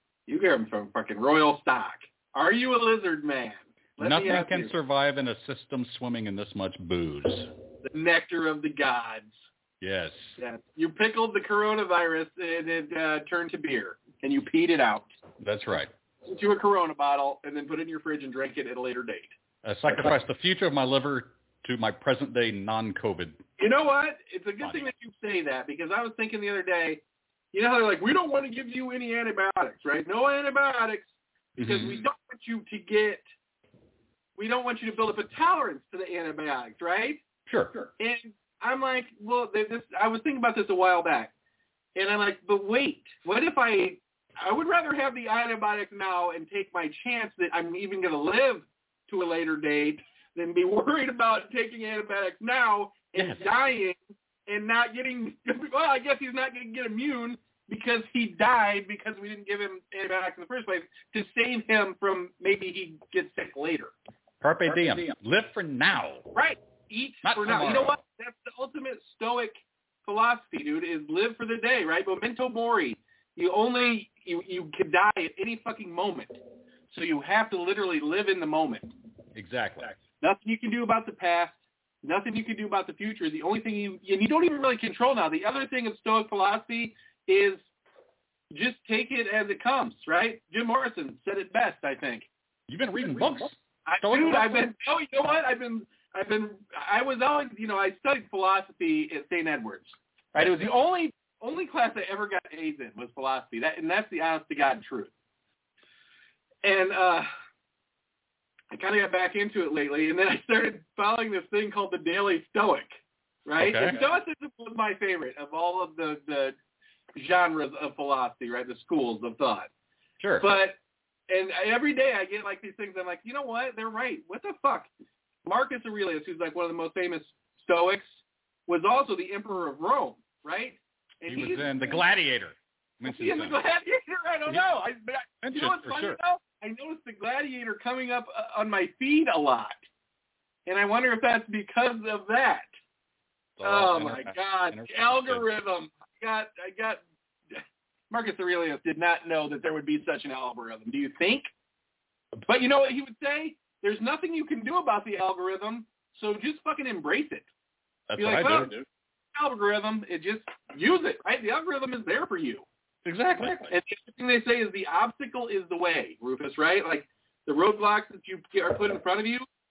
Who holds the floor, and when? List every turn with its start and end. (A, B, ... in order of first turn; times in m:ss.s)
0:00.3-0:04.7 A
0:04.0-0:07.5 B
0:07.8-0:09.4 A
0:09.8-0:10.4 B
0:10.4-0:15.1 A
0:15.4-0:15.9 B
0:16.2-0:19.3 A
0:19.6-0:23.4 B
0:23.6-0:27.0 A
0:24.6-0:24.9 B
0:27.5-0:33.2 A
0:31.6-0:32.0 B
0:34.4-0:37.2 A
0:37.4-0:37.7 B
0:37.8-0:41.3 A
0:41.9-1:03.9 A
0:53.1-0:53.5 B
1:04.4-1:06.3 B
1:06.3-1:18.9 A
1:07.2-1:08.0 B
1:19.3-1:19.9 B
1:20.2-1:27.6 A
1:28.5-1:32.3 A
1:32.7-1:34.7 B
1:33.8-1:45.1 A
1:46.6-1:47.3 A
1:48.7-1:52.9 A
1:53.4-1:56.6 A
1:53.6-1:54.0 B
1:57.2-1:59.7 A
2:00.2-2:00.5 B
2:00.4-2:00.8 A
2:01.3-2:04.9 A
2:05.4-2:12.0 A
2:11.3-2:13.6 B
2:13.0-2:19.8 A
2:15.4-2:16.2 B
2:20.6-2:22.7 A
2:23.6-2:25.5 B
2:23.6-2:31.5 A
2:32.4-2:37.5 A
2:38.1-2:38.8 B
2:38.2-2:38.8 A
2:39.3-2:42.6 A
2:43.0-2:43.7 B
2:43.7-2:49.5 A